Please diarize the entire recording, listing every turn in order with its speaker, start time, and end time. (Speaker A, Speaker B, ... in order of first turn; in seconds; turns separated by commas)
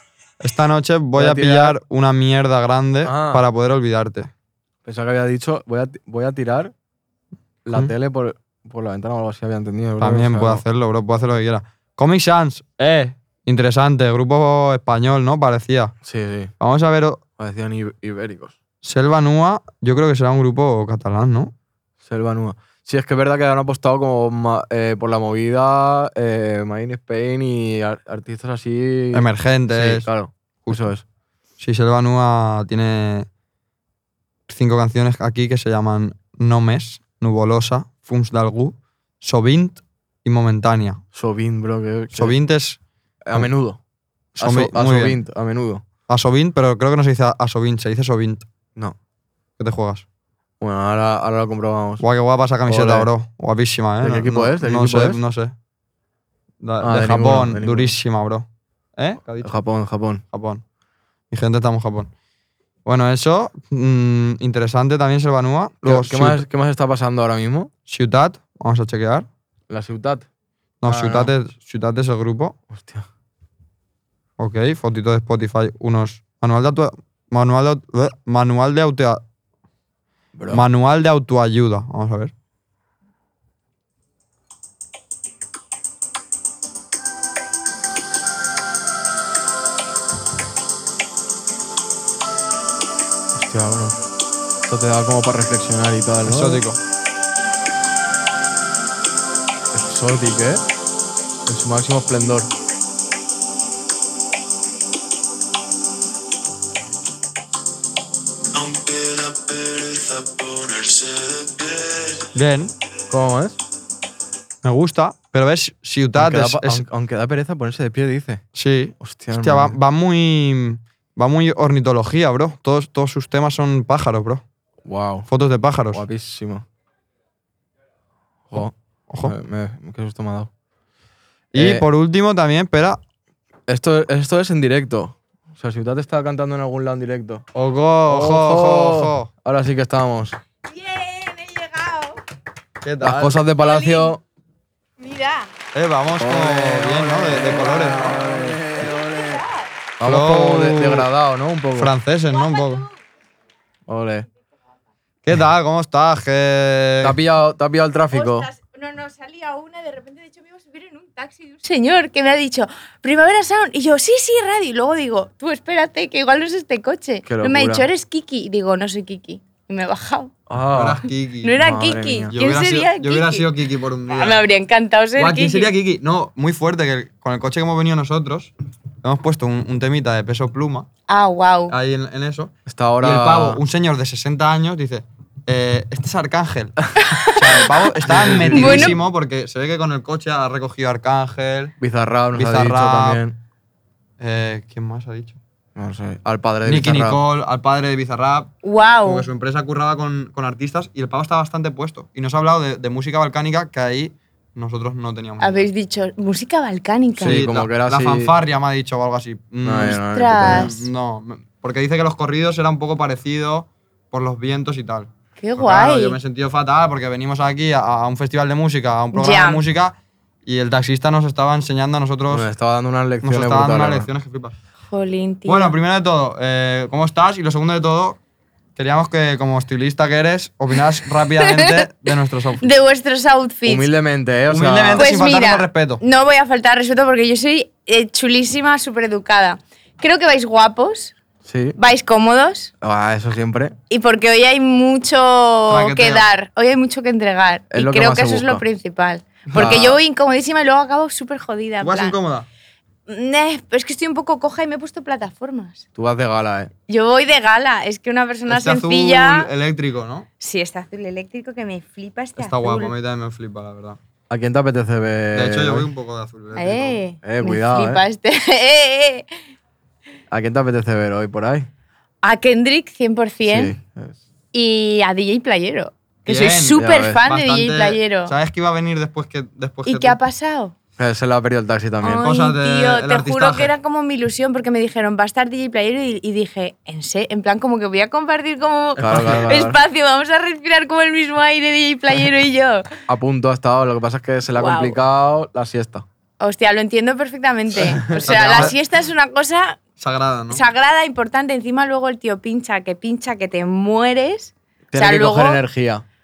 Speaker A: 0.4-4.3, Speaker B: 1.1-1.8, Speaker B: 3.0-3.4, Speaker B: 4.8-6.7, Speaker B: 7.6-10.6, Speaker A: 10.0-15.9, Speaker B: 16.0-16.5, Speaker A: 16.6-17.2, Speaker B: 17.4-18.6, Speaker A: 18.8-21.5, Speaker B: 22.0-31.0, Speaker A: 29.1-30.1, Speaker A: 31.6-33.3, Speaker A: 34.5-41.0, Speaker B: 41.1-42.3, Speaker A: 42.1-42.8, Speaker B: 43.2-43.8, Speaker A: 44.4-45.2, Speaker B: 44.4-45.8, Speaker A: 46.1-48.5, Speaker A: 49.6-50.0, Speaker B: 50.6-52.0, Speaker A: 52.0-55.5, Speaker B: 52.7-53.1, Speaker B: 54.0-55.2, Speaker A: 56.6-58.5, Speaker B: 56.8-57.9, Speaker A: 59.0-59.5, Speaker B: 59.4-60.2, Speaker A: 60.3-60.6, Speaker A: 61.3-62.1, Speaker A: 62.8-66.4, Speaker B: 65.8-67.7, Speaker A: 67.9-69.3, Speaker B: 69.7-70.3, Speaker A: 70.8-72.5, Speaker B: 70.8-71.3, Speaker B: 72.7-73.0, Speaker A: 74.4-79.2, Speaker B: 80.3-80.6, Speaker A: 80.5-82.3, Speaker B: 93.3-94.0, Speaker B: 94.7-96.6, Speaker A: 96.2-96.8, Speaker B: 99.7-100.6, Speaker B: 101.5-102.5, Speaker B: 108.6-112.1, Speaker A: 112.3-112.7, Speaker B: 113.1-113.6, Speaker A: 114.6-116.8, Speaker B: 116.2-118.4, Speaker A: 118.5-124.4, Speaker B: 119.0-119.8, Speaker B: 124.8-125.3, Speaker A: 125.3-126.0, Speaker B: 125.9-126.6, Speaker B: 128.5-130.5, Speaker A: 129.1-129.3, Speaker A: 131.5-133.0, Speaker B: 131.6-131.8, Speaker B: 133.7-137.4, Speaker A: 137.5-139.3, Speaker B: 138.1-140.4, Speaker C: 140.7-142.2, Speaker A: 142.8-143.4, Speaker B: 143.0-144.2, Speaker C: 143.5-144.2, Speaker C: 145.0-145.5, Speaker A: 145.7-148.5, Speaker B: 146.2-149.4, Speaker C: 148.7-149.7, Speaker B: 150.0-151.9, Speaker A: 150.0-151.1, Speaker A: 151.7-152.8, Speaker C: 152.3-152.9, Speaker B: 153.9-154.2, Speaker A: 155.2-157.2, Speaker B: 157.0-158.5, Speaker C: 158.1-170.3, Speaker B: 167.2-167.9, Speaker B: 170.5-171.0, Speaker A: 170.7-174.4, Speaker C: 171.4-173.5, Speaker B: 171.6-172.3, Speaker C: 174.1-175.7, Speaker A: 175.2-180.9, Speaker C: 181.1-181.7, Speaker A: 181.7-191.7, Speaker B: 182.7-183.6, Speaker C: 187.0-189.0, Speaker B: 188.1-189.0, Speaker B: 191.8-193.3, Speaker A: 192.3-193.2, Speaker A: 194.2-195.4, Speaker B: 195.8-197.2, Speaker A: 196.7-198.5, Speaker C: 198.6-199.3, Speaker A: 199.0-205.7, Speaker C: 205.4-207.4, Speaker B: 207.2-208.3, Speaker A: 207.2-222.5, Speaker B: 209.6-210.7, Speaker C: 210.0-210.8, Speaker C: 215.4-216.2, Speaker C: 219.1-219.6, Speaker B: 222.3-224.1, Speaker A: 223.2-224.5, Speaker C: 224.9-225.7, Speaker A: 225.4-228.2, Speaker A: 228.8-232.7, Speaker C: 231.3-233.9, Speaker B: 233.7-235.1, Speaker A: 234.5-236.0, Speaker C: 234.9-241.2, Speaker B: 241.4-241.8, Speaker C: 241.7-242.7, Speaker B: 242.8-243.7, Speaker C: 243.9-252.2, Speaker A: 245.7-246.3, Speaker B: 247.7-248.6, Speaker A: 249.5-249.9, Speaker B: 249.5-250.0, Speaker A: 251.8-252.5, Speaker C: 253.1-255.8, Speaker B: 255.9-256.7, Speaker C: 256.9-259.5, Speaker A: 258.5-260.3, Speaker C: 260.4-262.9, Speaker A: 262.4-264.0, Speaker B: 264.3-265.9, Speaker A: 265.3-267.0, Speaker C: 266.5-269.2, Speaker B: 267.2-268.0, Speaker B: 270.3-271.7, Speaker C: 272.2-273.8, Speaker B: 273.4-274.2, Speaker C: 274.5-278.3, Speaker A: 276.2-280.2, Speaker B: 276.8-277.2, Speaker C: 279.8-280.7, Speaker B: 281.0-282.3, Speaker C: 282.0-292.9, Speaker A: 282.1-283.7, Speaker B: 289.0-289.8, Speaker A: 289.0-289.6, Speaker B: 293.1-296.0, Speaker C: 294.5-295.0, Speaker C: 296.4-299.8, Speaker B: 297.8-298.7, Speaker A: 298.1-298.8, Speaker A: 300.0-300.6, Speaker C: 300.5-305.6, Speaker B: 304.9-306.0